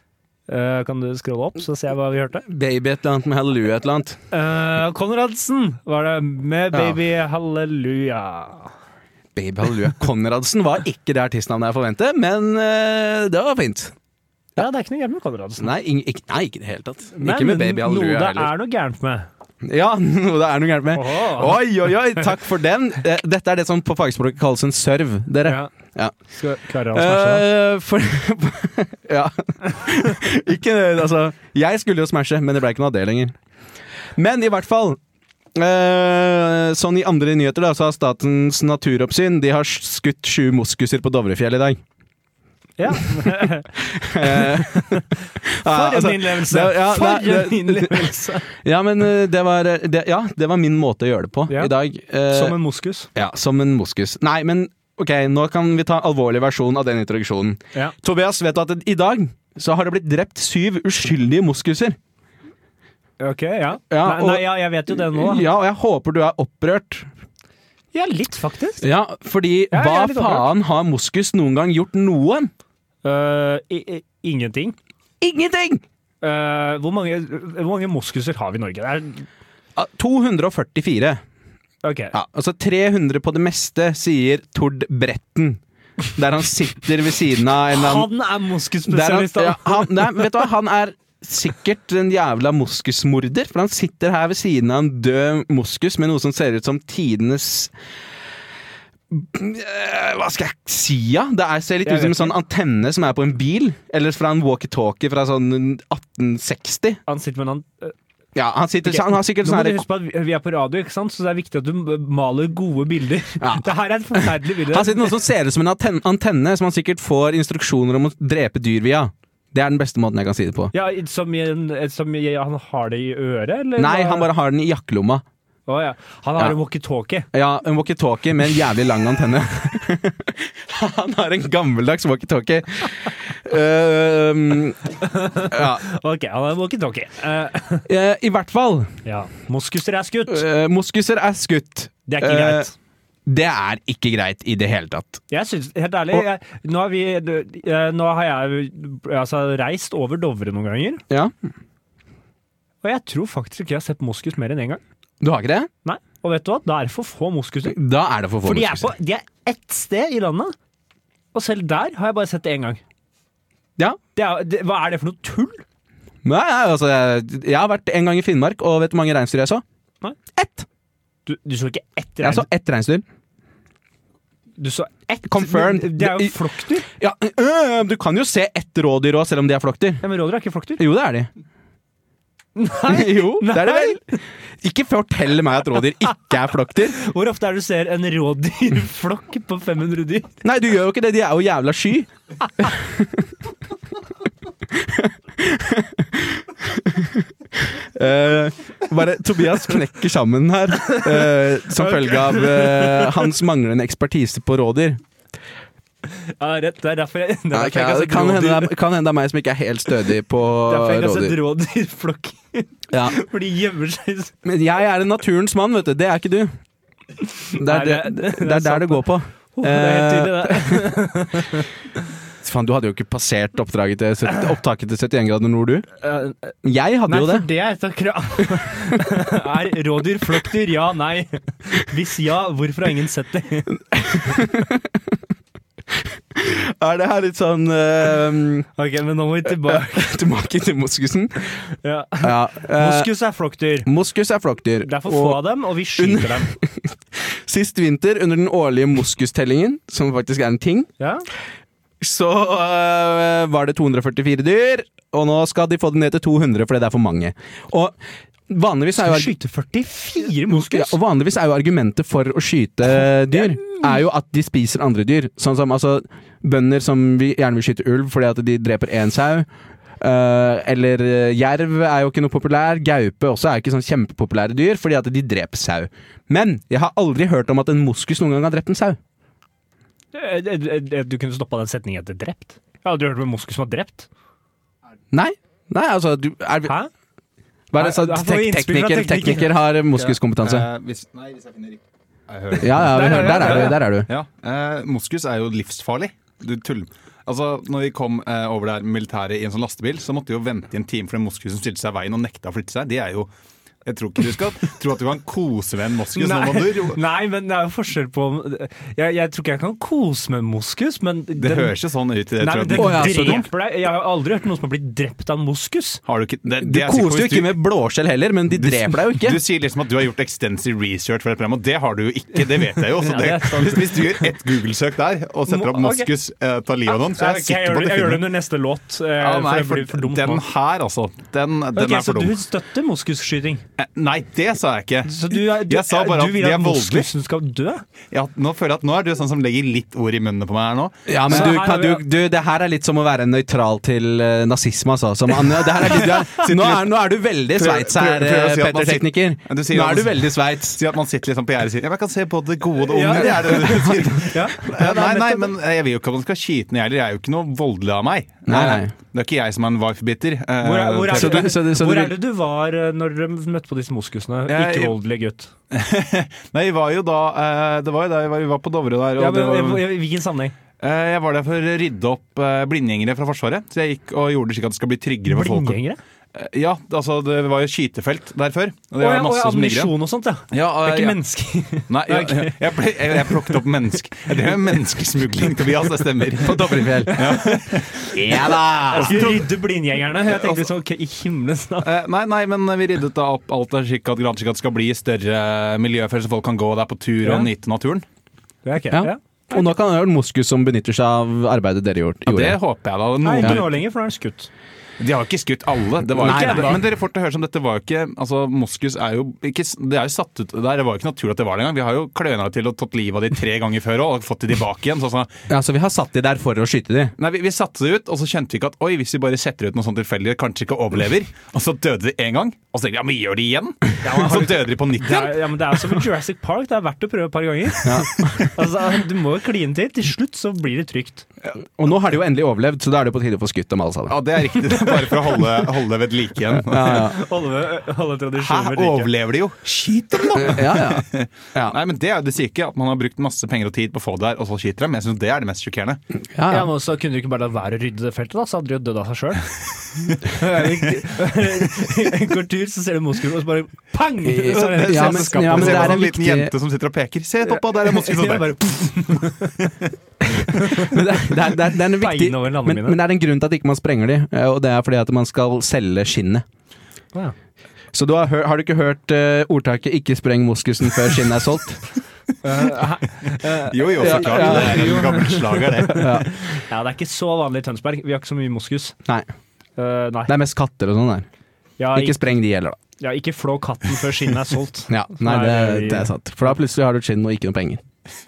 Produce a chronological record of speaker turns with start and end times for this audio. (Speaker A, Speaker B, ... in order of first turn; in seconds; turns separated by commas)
Speaker A: 0.5-2.5, Speaker B: 2.4-4.2, Speaker A: 4.3-8.7, Speaker B: 6.7-7.0, Speaker B: 9.3-13.9, Speaker A: 14.6-15.7, Speaker B: 15.6-18.5, Speaker A: 17.1-19.2, Speaker B: 19.6-26.1, Speaker A: 20.9-21.6, Speaker A: 25.4-25.7, Speaker A: 26.3-27.4, Speaker B: 26.9-33.3, Speaker B: 34.1-35.0, Speaker B: 35.5-41.8, Speaker A: 42.8-45.0, Speaker B: 43.8-52.6, Speaker A: 45.6-48.5, Speaker A: 52.3-53.1, Speaker B: 53.1-62.0, Speaker A: 63.2-65.5, Speaker B: 63.9-67.1, Speaker A: 67.9-68.8, Speaker B: 68.8-72.5, Speaker A: 69.7-70.5, Speaker A: 73.0-74.8, Speaker B: 75.2-75.8, Speaker A: 76.2-79.3, Speaker B: 79.8-81.2, Speaker A: 81.8-82.1, Speaker B: 82.1-85.6, Speaker B: 86.1-88.1, Speaker A: 87.7-90.2, Speaker B: 88.9-97.7, Speaker B: 99.1-107.0, Speaker A: 101.8-102.3, Speaker A: 107.1-107.9, Speaker B: 108.3-109.8, Speaker A: 108.8-115.1, Speaker B: 113.4-120.7, Speaker A: 120.7-124.3, Speaker B: 123.8-125.2, Speaker A: 125.7-127.3, Speaker B: 127.3-134.8, Speaker A: 135.0-137.9, Speaker B: 135.4-135.8, Speaker B: 137.9-138.9, Speaker A: 139.0-140.4, Speaker B: 140.3-142.7, Speaker A: 142.1-142.7, Speaker B: 143.2-145.2, Speaker A: 145.3-151.0, Speaker B: 151.1-151.3, Speaker A: 152.8-154.8, Speaker B: 155.2-155.7, Speaker A: 155.8-157.8, Speaker B: 157.7-158.9, Speaker A: 158.4-160.5, Speaker A: 161.3-162.8, Speaker A: 164.2-165.6, Speaker B: 166.2-169.6, Speaker B: 170.3-170.7, Speaker A: 171.2-172.5, Speaker B: 172.2-173.0, Speaker A: 174.6-176.9, Speaker B: 175.2-180.0, Speaker A: 180.0-180.8, Speaker B: 180.8-181.3, Speaker A: 182.6-184.2, Speaker B: 182.8-184.1, Speaker B: 184.6-187.0, Speaker A: 186.9-190.3, Speaker B: 190.4-193.2, Speaker B: 194.7-205.0, Speaker A: 200.8-203.3, Speaker A: 206.1-208.7, Speaker B: 207.5-211.4, Speaker A: 210.7-214.3, Speaker B: 212.9-213.1, Speaker B: 214.4-216.5, Speaker A: 217.5-221.7, Speaker B: 217.6-221.0, Speaker B: 222.4-225.9, Speaker A: 226.0-226.5, Speaker B: 226.6-227.4, Speaker A: 227.1-233.8, Speaker B: 233.9-235.0, Speaker B: 236.3-238.7, Speaker A: 238.8-239.9, Speaker B: 239.6-241.6, Speaker A: 241.8-243.9, Speaker B: 242.2-243.1, Speaker B: 243.8-245.4, Speaker A: 244.8-246.5, Speaker B: 245.9-250.9, Speaker A: 251.0-251.2, Speaker B: 252.0-258.0, Speaker B: 258.5-259.3, Speaker A: 259.0-261.0, Speaker B: 260.5-269.5, Speaker A: 263.3-263.9, Speaker B: 270.0-279.0, Speaker A: 280.1-284.1, Speaker B: 285.1-286.7, Speaker B: 287.7-290.7, Speaker A: 287.8-289.6, Speaker C: 289.9-303.3, Speaker B: 292.6-294.1, Speaker A: 292.9-293.8, Speaker C: 303.8-307.0, Speaker A: 306.1-311.8, Speaker C: 311.4-313.5, Speaker A: 312.4-316.0, Speaker B: 312.7-313.4, Speaker C: 316.1-317.5, Speaker B: 316.5-319.4, Speaker C: 318.5-328.2, Speaker A: 322.9-324.3, Speaker A: 325.5-326.1, Speaker A: 326.9-330.4, Speaker C: 329.2-332.4, Speaker A: 331.7-333.6, Speaker C: 333.8-337.1, Speaker A: 335.0-337.8, Speaker C: 338.1-341.6, Speaker B: 341.1-350.8, Speaker A: 341.2-342.0, Speaker C: 345.8-346.9, Speaker C: 347.6-361.5, Speaker A: 352.8-355.5, Speaker B: 353.1-354.2, Speaker B: 358.5-358.9, Speaker A: 360.6-365.5, Speaker B: 361.1-362.1, Speaker C: 364.5-364.9, Speaker C: 365.7-369.9, Speaker A: 369.2-370.5, Speaker C: 370.8-375.8, Speaker A: 375.3-376.0, Speaker C: 376.3-379.9, Speaker A: 379.0-382.6, Speaker C: 380.5-381.1, Speaker C: 381.9-389.5, Speaker B: 386.4-387.3, Speaker A: 387.1-387.6, Speaker B: 388.1-389.3, Speaker A: 388.9-391.9, Speaker C: 390.3-390.6, Speaker C: 391.8-398.0, Speaker A: 397.2-397.5, Speaker A: 398.6-399.7, Speaker B: 398.9-402.6, Speaker C: 402.3-403.7, Speaker A: 403.2-404.5, Speaker C: 405.0-415.3, Speaker B: 406.1-406.8, Speaker A: 406.2-406.8, Speaker B: 415.5-417.1, Speaker C: 417.2-426.0, Speaker A: 424.0-431.2, Speaker B: 427.8-428.5, Speaker B: 431.6-434.2, Speaker C: 434.1-437.2, Speaker B: 436.6-437.2, Speaker A: 436.9-439.1, Speaker C: 438.4-446.0, Speaker B: 440.3-441.8, Speaker B: 446.3-446.7, Speaker A: 446.5-449.5, Speaker A: 450.2-456.1, Speaker C: 450.6-451.0, Speaker B: 454.2-456.5, Speaker C: 454.5-459.9, Speaker A: 457.4-459.5, Speaker B: 460.4-466.4, Speaker A: 460.5-463.0, Speaker B: 467.9-471.8, Speaker A: 472.4-478.9, Speaker C: 473.6-476.2, Speaker B: 474.0-475.1, Speaker B: 475.9-476.3, Speaker A: 479.8-480.3, Speaker B: 480.3-481.3, Speaker A: 481.8-482.3, Speaker B: 481.9-482.8, Speaker A: 483.0-486.1, Speaker B: 484.9-487.8